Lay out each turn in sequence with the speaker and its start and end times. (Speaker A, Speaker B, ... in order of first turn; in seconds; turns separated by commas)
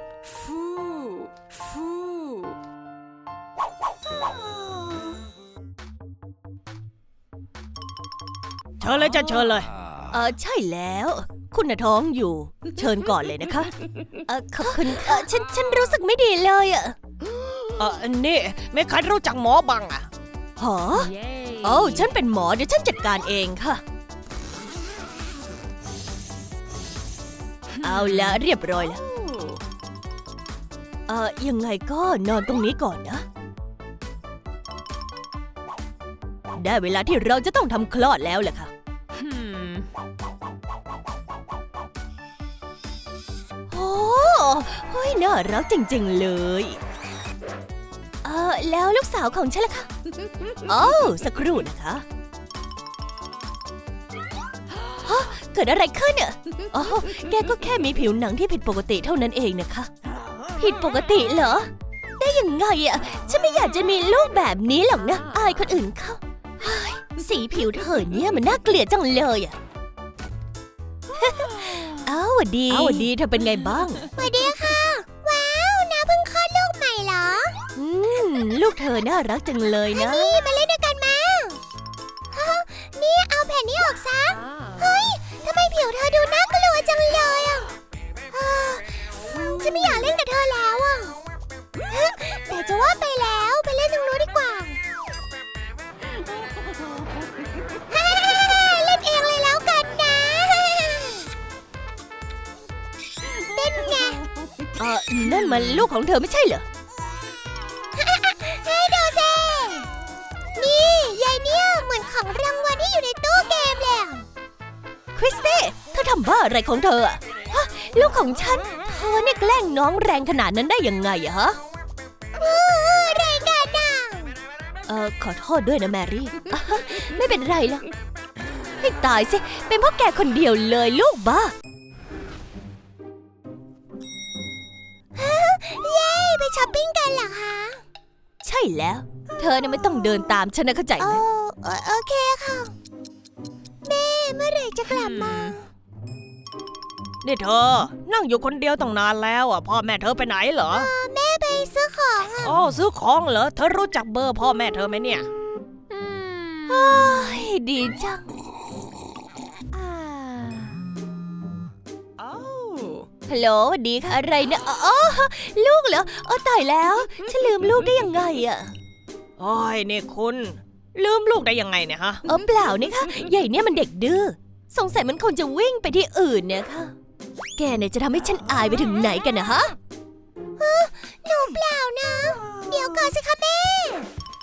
Speaker A: 8.8-9.7, Speaker B: 10.1-16.9, Speaker A: 17.8-20.1, Speaker B: 20.6-23.8, Speaker C: 20.9-22.1, Speaker B: 27.8-29.0, Speaker C: 27.8-28.4, Speaker C: 29.2-29.5, Speaker B: 31.1-33.2, Speaker B: 36.5-38.7, Speaker C: 39.1-39.9, Speaker B: 43.7-46.8, Speaker B: 48.2-49.9, Speaker B: 50.6-52.0, Speaker B: 55.0-59.9, Speaker B: 60.6-69.5, Speaker C: 64.9-65.7, Speaker B: 71.1-74.1, Speaker D: 72.7-73.0, Speaker D: 74.1-77.6, Speaker B: 77.7-80.4, Speaker D: 79.9-81.6, Speaker D: 82.3-87.7, Speaker C: 84.3-85.1, Speaker D: 88.3-91.2, Speaker D: 91.9-94.8, Speaker D: 97.9-101.3, Speaker D: 103.5-104.2, Speaker B: 104.8-106.6, Speaker D: 107.9-109.9, Speaker D: 110.5-114.2, Speaker B: 115.1-121.6, Speaker D: 122.4-124.3, Speaker B: 124.9-127.8, Speaker B: 128.8-131.5, Speaker D: 135.1-137.8, Speaker B: 138.4-141.2, Speaker D: 141.0-142.7, Speaker D: 143.8-145.6, Speaker C: 145.0-145.5, Speaker A: 147.2-150.9, Speaker D: 150.7-152.6, Speaker A: 152.4-155.2, Speaker D: 155.9-156.8, Speaker B: 156.7-158.3, Speaker C: 159.7-160.8, Speaker B: 163.3-168.7, Speaker A: 169.4-172.2, Speaker B: 172.2-176.9, Speaker B: 177.6-179.7, Speaker D: 180.6-184.1